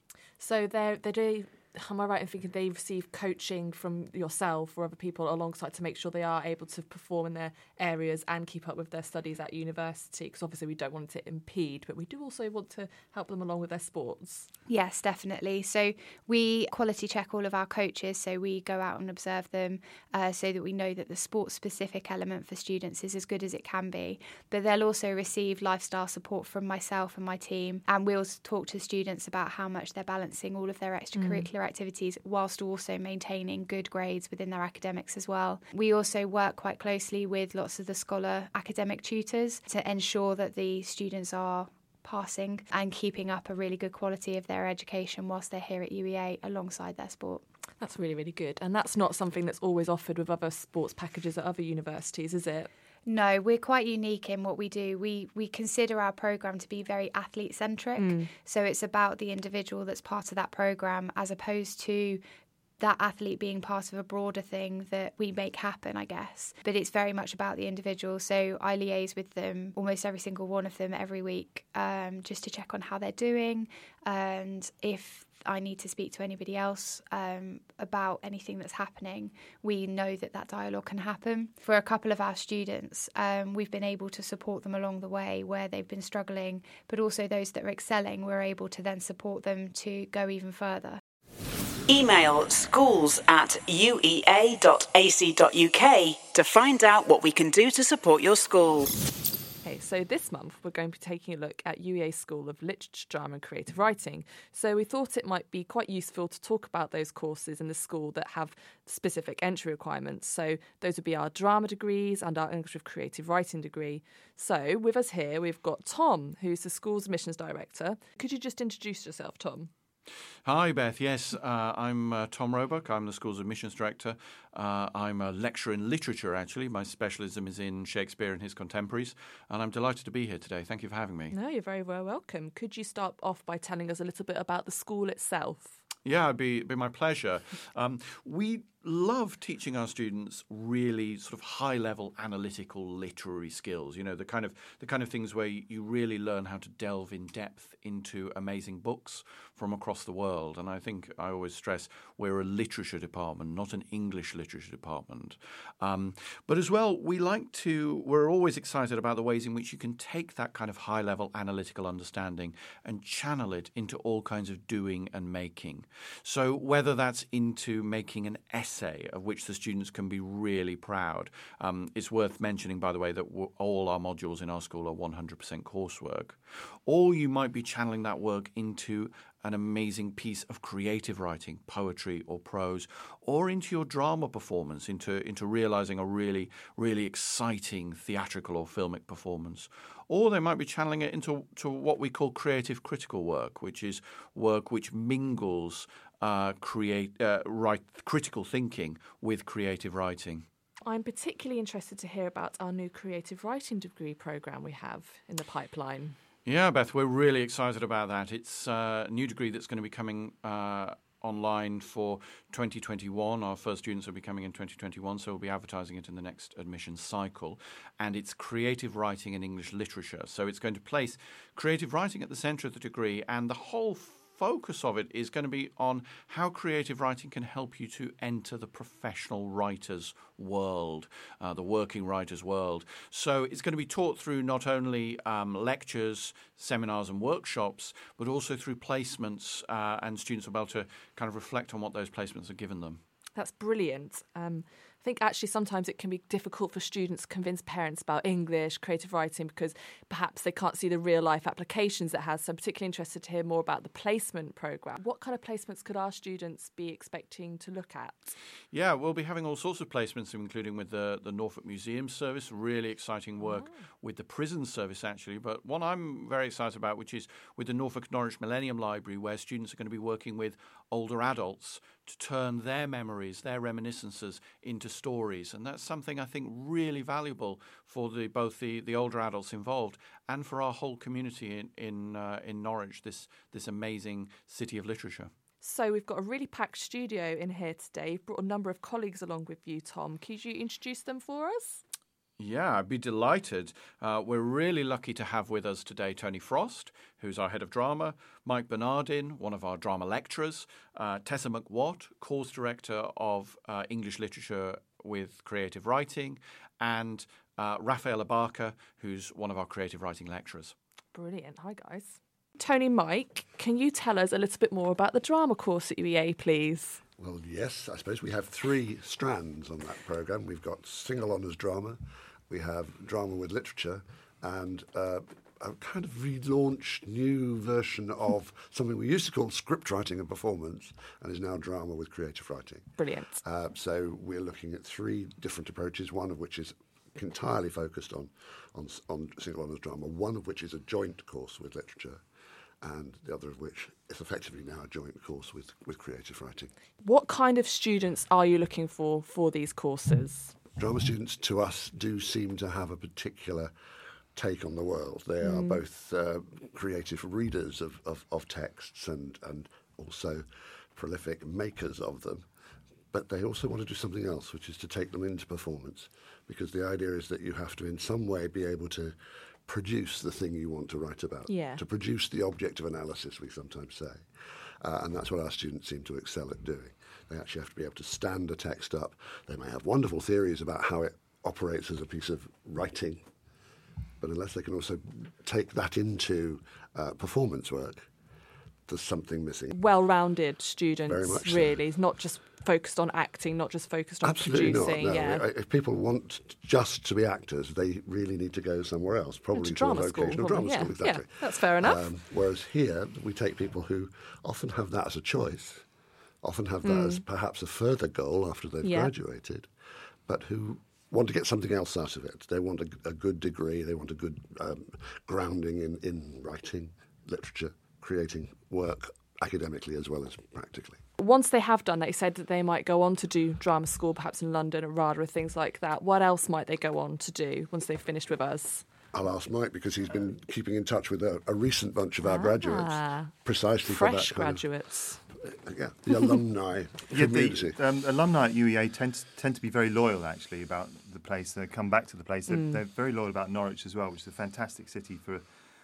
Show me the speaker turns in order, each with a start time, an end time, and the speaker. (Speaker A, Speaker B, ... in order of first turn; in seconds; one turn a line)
Speaker A: 0.4-14.5
Speaker B: 14.7-47.4
Speaker A: 31.1-31.5
Speaker A: 47.8-52.7
Speaker B: 53.1-62.2
Speaker A: 58.0-58.3
Speaker B: 62.8-91.0
Speaker C: 91.9-98.9
Speaker A: 99.6-119.7
Speaker D: 120.4-131.3
Speaker A: 131.3-135.8
Speaker D: 136.1-200.5
Speaker A: 200.8-206.2
Speaker D: 206.5-243.0
Speaker A: 243.3-258.3
Speaker D: 258.7-285.3
Speaker A: 263.4-263.8
Speaker A: 285.6-291.8
Speaker D: 292.4-310.8
Speaker A: 311.1-317.0
Speaker E: 317.2-342.2
Speaker A: 333.0-333.4
Speaker E: 342.8-346.7
Speaker A: 347.0-350.6
Speaker E: 350.8-353.7
Speaker E: 354.4-362.5
Speaker A: 355.4-355.8
Speaker E: 363.1-374.3
Speaker A: 371.5-371.8
Speaker E: 374.8-383.3
Speaker E: 384.2-388.1
Speaker E: 388.9-389.8
Speaker A: 389.7-395.5
Speaker E: 391.1-391.8
Speaker E: 394.2-405.9
Speaker A: 399.5-402.1
Speaker E: 406.4-409.7
Speaker A: 406.8-407.2
Speaker A: 408.8-409.1
Speaker E: 410.3-421.0
Speaker A: 421.2-428.9
Speaker E: 429.1-434.7
Speaker A: 432.2-435.2
Speaker E: 435.3-437.8
Speaker F: 437.1-445.4
Speaker A: 442.5-442.8